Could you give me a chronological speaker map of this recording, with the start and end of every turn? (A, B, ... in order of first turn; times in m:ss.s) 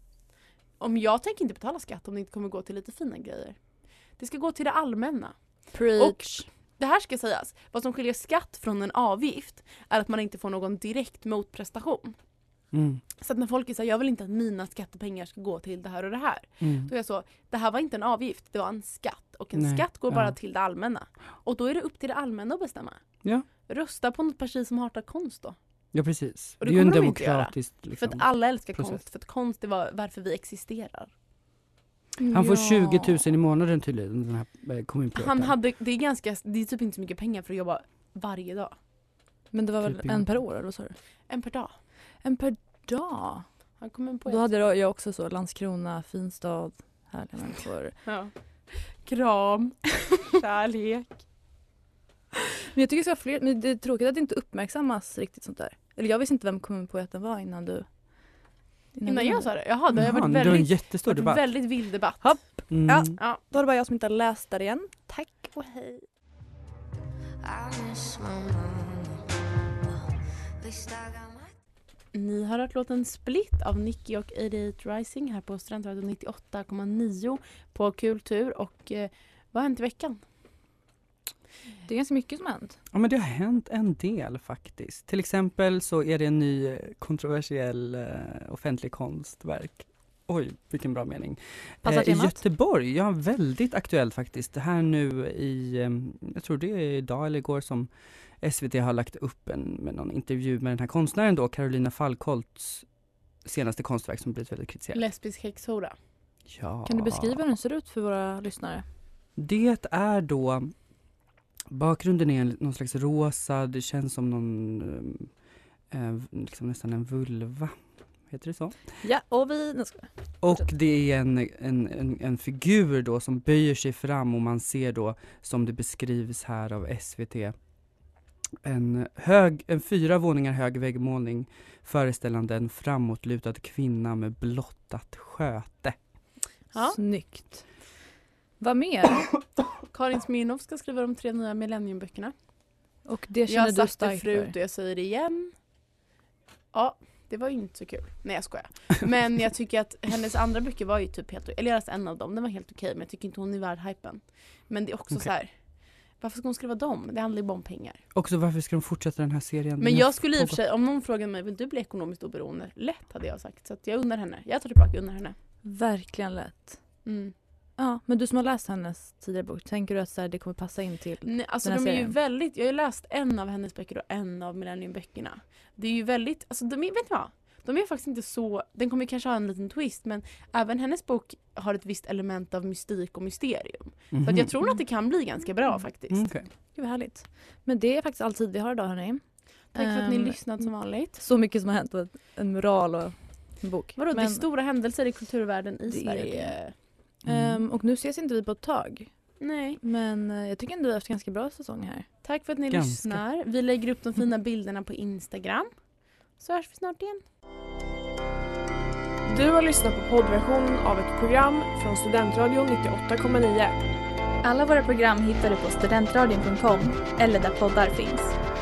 0:00.8-0:03.6 A
0:04.2-0:12.2 A
0:05.7-0:06.5 B
0:12.7-0:13.0 C
0:13.2-0:23.0 A
0:16.6-0:16.9 C
0:19.6-0:20.4 C
0:23.6-0:25.6 A
0:25.9-0:29.0 C
0:26.6-0:31.1 A
0:32.2-0:33.2 B
0:32.3-0:35.5 C
0:35.2-0:38.8 A
0:39.5-0:41.0 B
0:39.8-0:40.4 C
0:41.3-0:41.7 A
0:42.2-0:43.4 B
0:43.8-0:44.5 A
0:44.3-0:48.0 B
0:48.1-0:51.2 A
0:52.7-0:57.9 B
0:59.0-0:59.5 B
0:59.1-1:02.4 A
0:59.9-1:01.4 C
1:02.2-1:06.0 B
1:02.7-1:03.2 C
1:07.5-1:09.1 A
1:12.1-1:20.2 A
1:21.9-1:22.8 B
1:22.9-1:42.9 C
1:31.8-1:32.4 B
1:43.4-1:45.0 C
1:44.9-1:46.0 A
1:46.5-1:47.4 C
1:46.9-1:48.8 B
1:49.4-1:50.7 C
1:51.7-1:55.3 C
1:55.9-1:57.8 C
1:58.3-1:58.8 C
1:59.0-2:00.6 B
2:00.4-2:07.6 C
2:08.6-2:16.0 C
2:16.7-2:17.0 A
2:16.9-2:17.7 B
2:18.6-2:19.3 B
2:19.9-2:22.3 A
2:23.1-2:24.5 B
2:23.5-2:25.5 A
2:26.7-2:38.0 A
2:38.2-2:40.6 C
2:39.8-2:45.4 A
2:45.6-2:46.8 B
2:47.0-2:47.3 A
2:47.8-2:52.1 B
2:51.2-3:06.3 A
3:04.1-3:04.6 C
3:06.1-3:06.5 C
3:06.7-3:14.4 B
3:09.7-3:11.2 A
3:14.0-3:16.7 A
3:15.9-3:16.6 B
3:17.2-3:19.1 B
3:17.3-3:17.6 C
3:19.4-3:19.8 A
3:19.8-3:22.1 B
3:22.2-3:25.7 A
3:22.7-3:23.2 C
3:26.4-3:27.2 A
3:29.2-3:33.8 D
3:34.4-3:38.4 E